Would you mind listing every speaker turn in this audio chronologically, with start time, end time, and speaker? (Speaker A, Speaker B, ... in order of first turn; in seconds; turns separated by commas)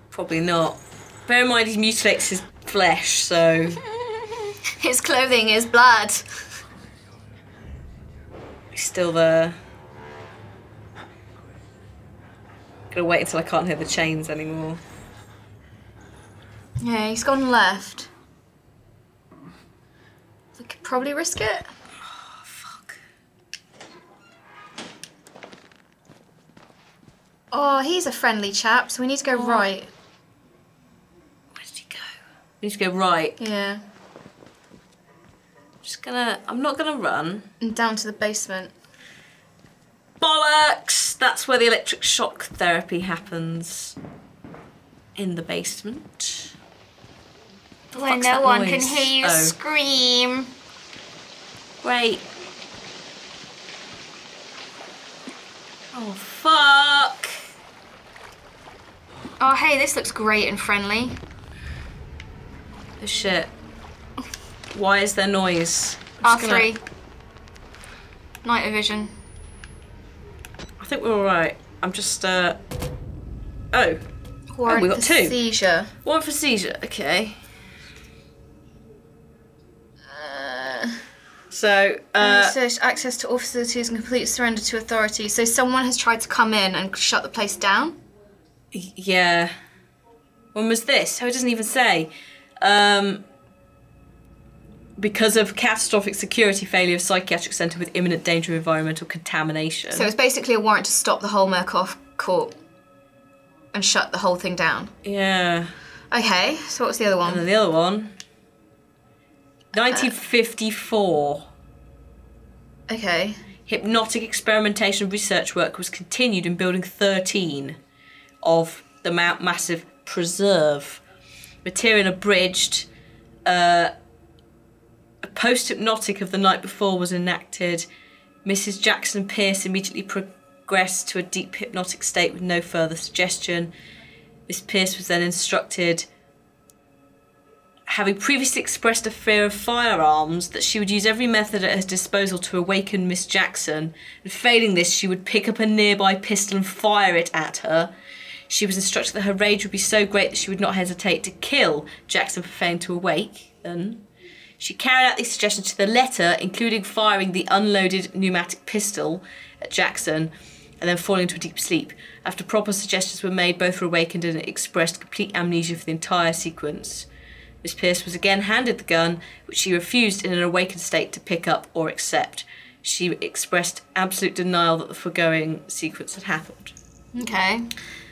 Speaker A: 0.1-3.8, Speaker B: 4.0-6.3, Speaker A: 8.7-9.6, Speaker A: 12.9-14.8, Speaker B: 16.8-18.1, Speaker B: 20.6-21.7, Speaker A: 22.1-23.0, Speaker B: 27.5-29.9, Speaker A: 29.3-29.7, Speaker A: 31.5-33.4, Speaker B: 33.4-33.8, Speaker A: 35.8-37.5, Speaker B: 37.6-38.7, Speaker A: 40.2-44.0, Speaker A: 45.1-46.5, Speaker A: 47.9-49.5, Speaker B: 47.9-50.5, Speaker A: 51.8-52.2, Speaker A: 55.9-57.3, Speaker B: 59.4-61.2, Speaker A: 63.0-63.5, Speaker A: 64.7-66.7, Speaker B: 66.2-66.8, Speaker B: 68.4-69.1, Speaker A: 70.8-72.6, Speaker A: 73.7-74.0, Speaker B: 74.5-75.9, Speaker A: 74.7-75.3, Speaker A: 76.0-77.4, Speaker B: 80.1-81.0, Speaker A: 81.5-82.5, Speaker B: 82.2-88.0, Speaker A: 88.7-89.5, Speaker A: 90.5-93.2, Speaker A: 95.0-100.1, Speaker B: 99.9-102.5, Speaker B: 103.7-104.9, Speaker A: 105.0-105.7, Speaker B: 106.1-107.4, Speaker A: 107.2-108.1, Speaker A: 109.7-111.4, Speaker B: 112.9-113.4, Speaker A: 113.7-117.8, Speaker A: 118.4-121.0, Speaker A: 121.6-122.9, Speaker A: 123.5-123.9, Speaker A: 125.2-127.9, Speaker A: 128.4-133.7, Speaker A: 134.5-136.1, Speaker A: 137.9-147.9, Speaker A: 148.5-154.0, Speaker A: 154.6-167.1, Speaker A: 167.6-176.7, Speaker B: 177.1-177.7